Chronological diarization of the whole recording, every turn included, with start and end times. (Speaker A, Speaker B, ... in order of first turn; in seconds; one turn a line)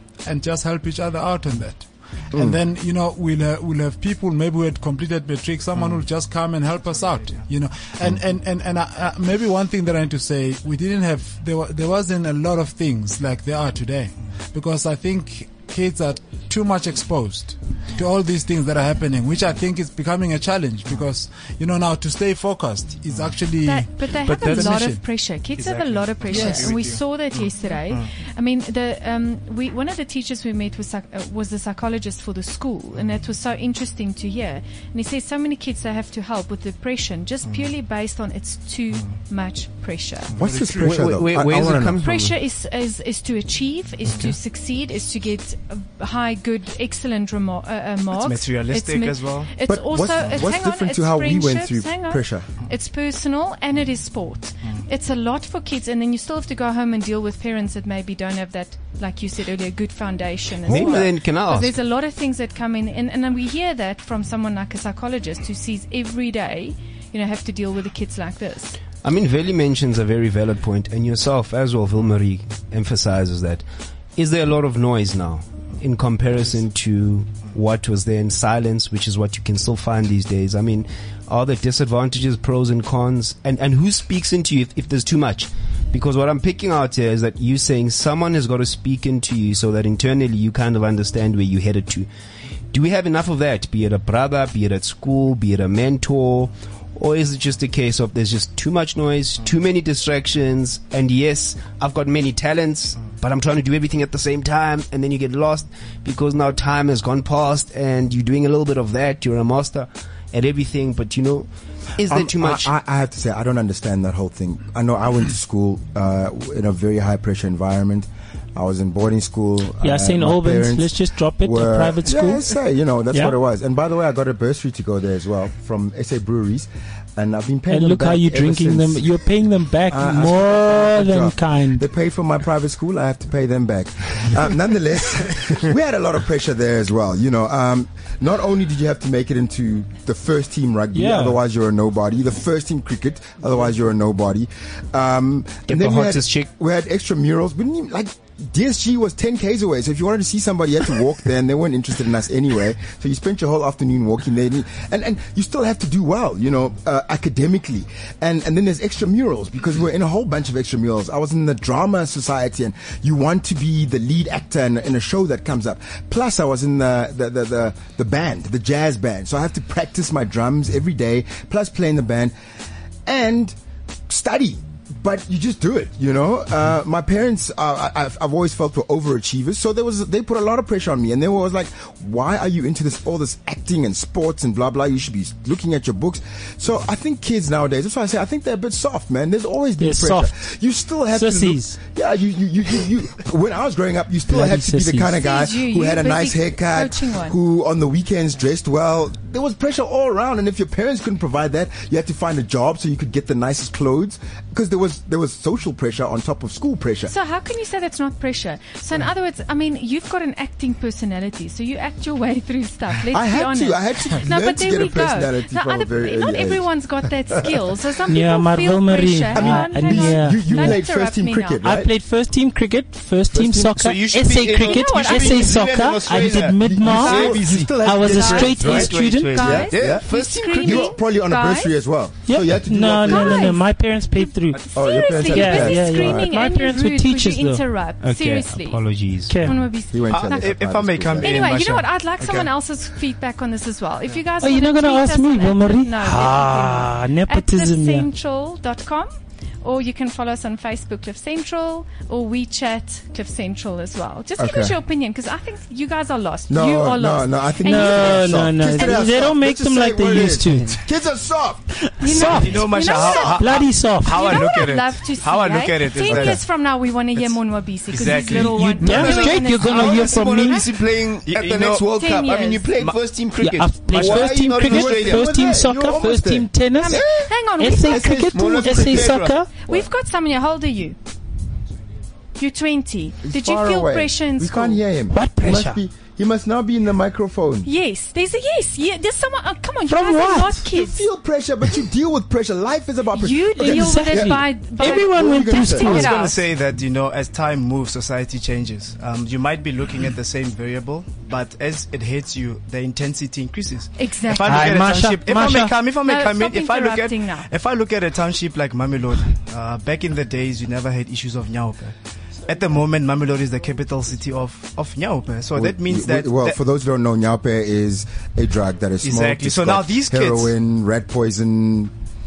Speaker A: 0.2-25.0
Speaker B: 23.6-40.3
Speaker C: 25.6-28.1
Speaker A: 26.3-26.8
Speaker D: 40.4-42.0
Speaker A: 40.4-40.9
Speaker E: 40.8-42.4
Speaker B: 42.0-68.8
Speaker C: 48.1-49.5
Speaker D: 49.6-52.5
Speaker E: 60.6-61.7
Speaker E: 69.0-73.6
Speaker E: 74.2-92.1
Speaker E: 92.7-112.7
Speaker D: 112.0-129.2
Speaker F: 119.8-122.5
Speaker F: 127.7-131.8
Speaker D: 129.9-172.3
Speaker F: 140.9-141.4
Speaker E: 145.7-146.5
Speaker D: 173.1-173.5
Speaker D: 174.1-207.1
Speaker F: 189.8-190.3
Speaker F: 191.1-191.8
Speaker F: 194.3-195.2
Speaker B: 195.1-197.3
Speaker B: 207.1-221.6
Speaker D: 213.1-216.7
Speaker F: 218.1-220.8
Speaker D: 219.3-221.9
Speaker F: 221.6-229.7
Speaker D: 223.3-223.7
Speaker E: 223.7-230.9
Speaker B: 224.6-225.5
Speaker D: 226.6-228.9
Speaker C: 226.9-227.8
Speaker B: 228.1-231.7
Speaker D: 229.4-233.5
Speaker F: 232.3-237.6
Speaker B: 233.0-240.5
Speaker D: 234.7-236.3
Speaker E: 238.0-239.4
Speaker F: 239.3-239.6
Speaker D: 239.9-241.5
Speaker C: 240.1-242.5
Speaker B: 241.2-259.2
Speaker F: 244.4-248.1
Speaker D: 254.4-254.8
Speaker D: 256.5-261.7
Speaker F: 257.6-260.8
Speaker F: 262.0-264.7
Speaker B: 262.0-270.6
Speaker C: 262.1-266.4
Speaker D: 266.1-266.4
Speaker C: 267.9-269.6
Speaker F: 268.1-270.7
Speaker E: 268.8-275.4
Speaker C: 271.2-271.9
Speaker B: 271.9-272.7
Speaker F: 273.4-277.1
Speaker C: 273.9-274.3
Speaker D: 274.6-276.5
Speaker B: 276.7-278.3
Speaker F: 277.6-279.5
Speaker E: 277.8-279.3
Speaker D: 278.4-278.8
Speaker B: 279.6-281.0
Speaker B: 282.4-284.8
Speaker D: 283.2-287.7
Speaker F: 285.1-285.8
Speaker B: 287.6-291.0
Speaker F: 289.9-290.6
Speaker D: 290.7-296.1
Speaker B: 293.1-296.4
Speaker F: 293.6-296.4
Speaker C: 295.8-311.9
Speaker B: 304.0-304.9
Speaker F: 304.4-305.8
Speaker B: 306.0-307.5
Speaker C: 312.4-316.6
Speaker D: 315.6-321.9
Speaker C: 319.0-320.5